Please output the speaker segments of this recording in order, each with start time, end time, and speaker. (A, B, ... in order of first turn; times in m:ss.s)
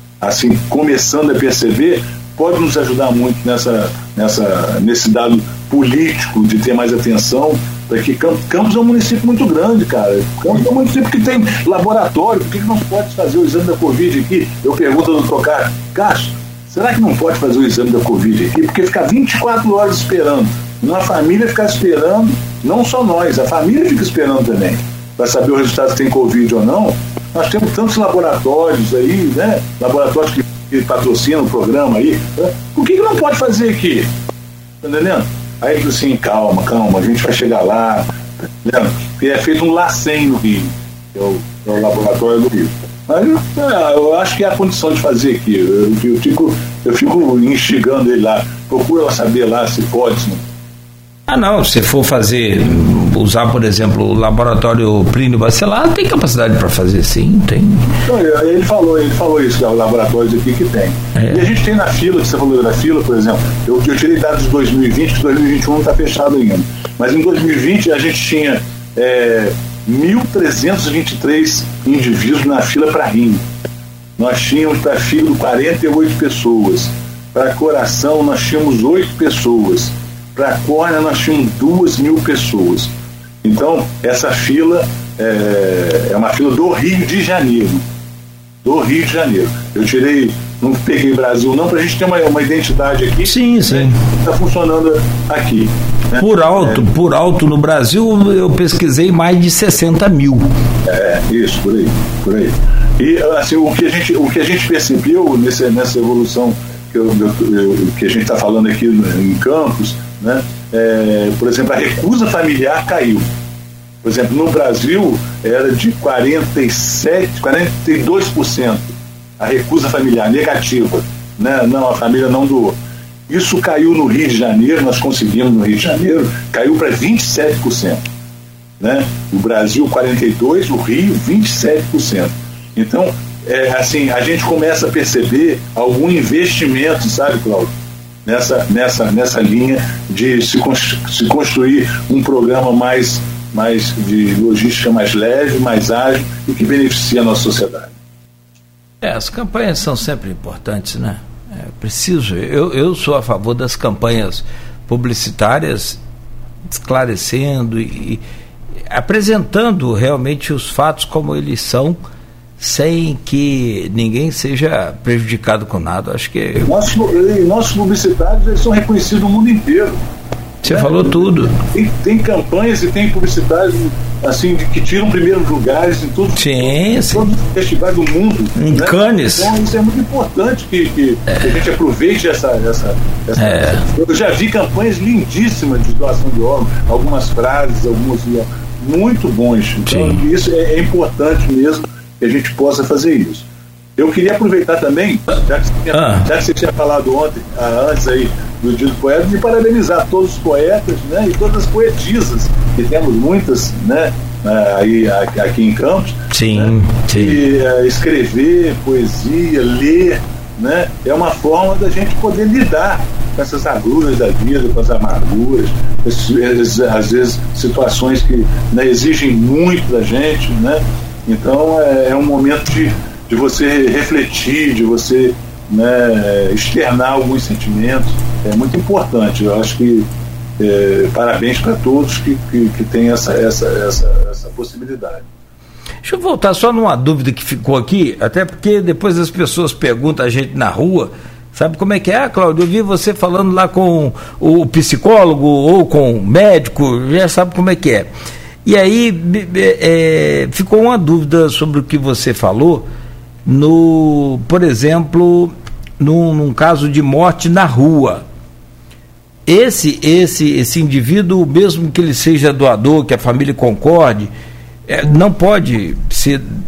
0:00.2-0:34.1 A
0:34.8-0:50.5 A
0:51.3-0:57.9 B
0:58.0-1:13.4 A
1:01.2-1:01.4 B
1:14.2-1:22.9 A
1:23.4-1:27.8 A
1:28.6-1:36.9 A
1:33.2-1:34.0 B
1:36.2-1:40.5 B
1:40.8-1:53.3 A
1:54.0-2:02.8 A
2:03.3-2:08.0 A
2:08.8-2:17.7 A
2:18.2-2:28.0 A
2:29.0-2:36.0 B
2:36.7-2:38.2 B
2:38.9-2:42.0 B
2:42.6-2:46.7 B
2:46.6-2:50.0 A
2:50.6-2:51.6 B
2:50.7-3:13.5 A
2:56.4-2:57.3 B
2:58.6-2:59.6 B
3:03.4-3:03.9 B
3:09.9-3:10.2 B
3:14.0-3:50.1 A
3:15.9-3:16.3 B
3:26.3-3:27.4 B
3:50.6-3:55.3 A
3:56.0-4:08.1 B
4:08.6-4:12.9 B
4:13.5-4:18.2 B
4:19.5-4:24.3 B
4:24.9-4:26.5 B